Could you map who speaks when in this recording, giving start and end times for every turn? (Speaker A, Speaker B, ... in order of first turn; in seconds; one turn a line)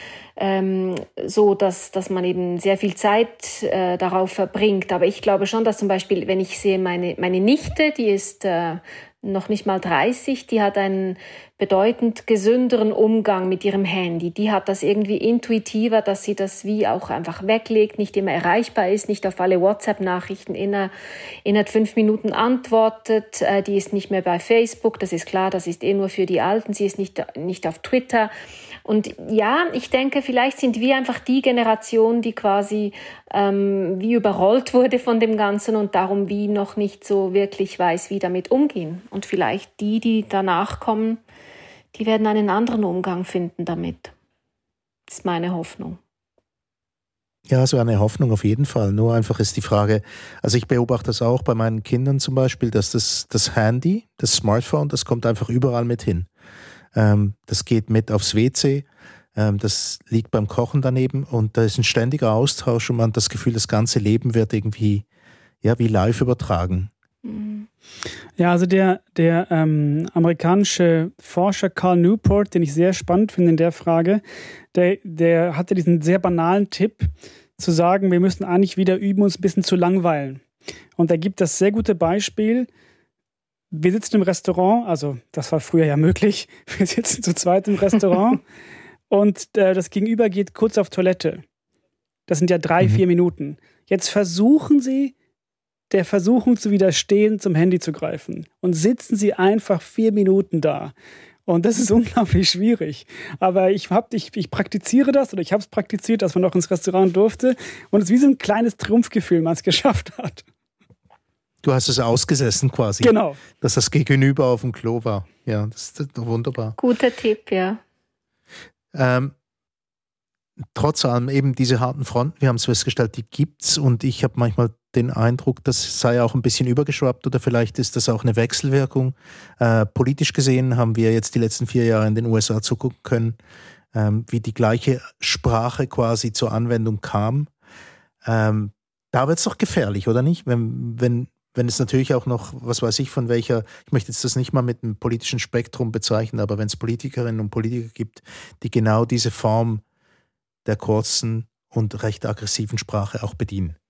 Speaker A: 0.4-20.9
Speaker A: 21.4-28.3
Speaker A: 28.8-41.2
Speaker A: 41.9-44.1
Speaker A: 45.1-46.0
Speaker B: 47.5-56.3
Speaker B: 56.9-65.0
Speaker B: 65.6-66.9
Speaker A: 67.2-67.7
Speaker C: 68.4-74.2
Speaker C: 74.7-80.4
Speaker C: 81.0-82.7
Speaker C: 83.7-88.4
Speaker C: 89.1-91.4
Speaker C: 92.3-95.1
Speaker C: 95.9-100.9
Speaker C: 101.5-110.4
Speaker B: 111.6-116.8
Speaker C: 113.0-113.4
Speaker A: 116.8-117.8
Speaker B: 118.9-119.3
Speaker B: 120.7-133.4
Speaker B: 133.9-137.5
Speaker B: 138.2-149.8
Speaker B: 150.6-153.8